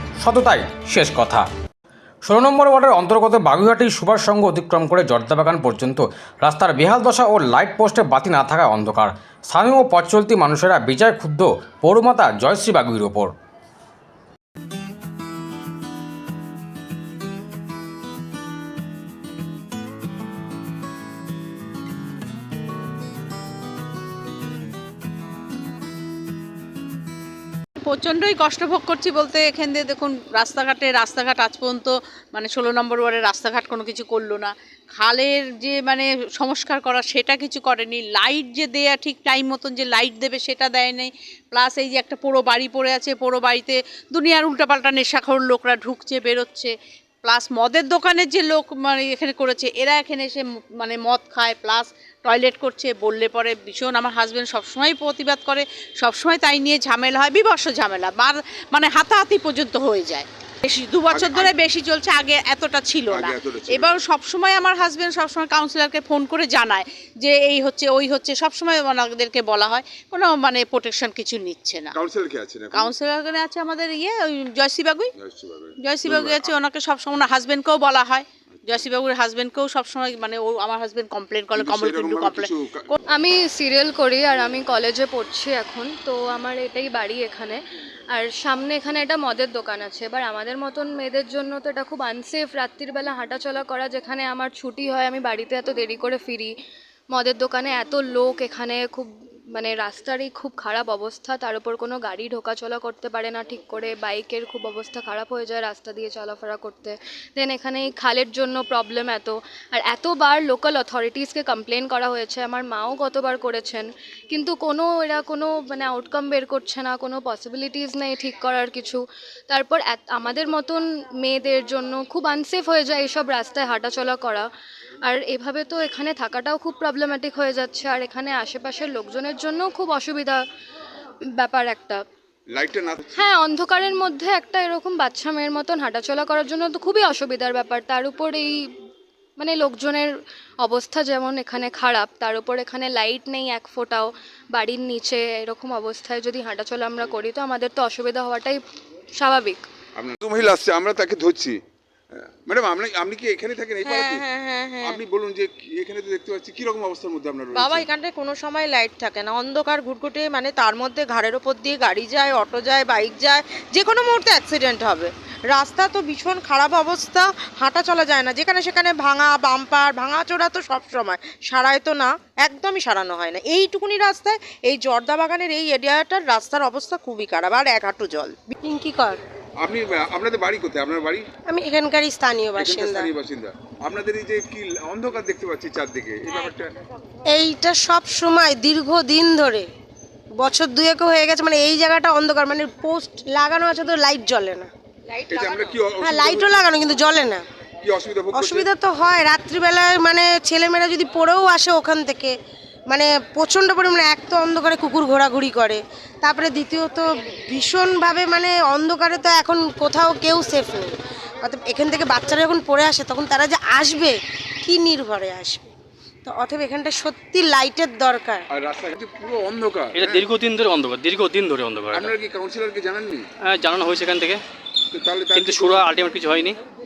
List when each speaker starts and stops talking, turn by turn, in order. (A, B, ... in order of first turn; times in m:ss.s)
0:00.2-0:01.5 A
0:02.2-0:13.3 A
0:27.8-0:46.7 B
0:47.2-1:11.9 B
1:01.1-1:01.5 C
1:03.1-1:03.9 C
1:11.9-1:12.9 C
1:12.7-1:15.1 B
1:15.2-1:16.6 C
1:15.8-1:23.0 B
1:21.5-1:22.9 C
1:23.1-1:27.6 D
1:28.1-1:36.5 D
1:37.1-2:04.5 D
2:05.0-2:10.4 D
2:11.3-2:12.0 D
2:12.5-2:13.3 C
2:13.2-2:18.7 D
2:19.4-2:28.6 D
2:29.1-2:29.7 D
2:30.0-2:31.6 C
2:32.5-2:34.2 C
2:33.8-2:35.0 E
2:34.8-2:37.9 C
2:37.5-2:58.5 E
2:58.5-2:59.2 F
2:59.6-3:01.3 C
3:01.5-3:03.1 F
3:02.5-3:06.7 C
3:07.3-3:09.7 F
3:10.4-3:14.7 F
3:15.3-3:16.7 C
3:16.0-3:17.4 F
3:17.8-3:18.7 C
3:18.3-3:22.3 F
3:22.9-3:30.9 F
3:31.4-3:35.7 F
3:36.2-3:38.4 F
3:38.5-3:40.3 C
3:39.9-3:42.1 G
3:41.9-3:43.2 C
3:43.5-3:44.4 G
3:44.9-3:46.4 C
3:45.3-3:46.6 G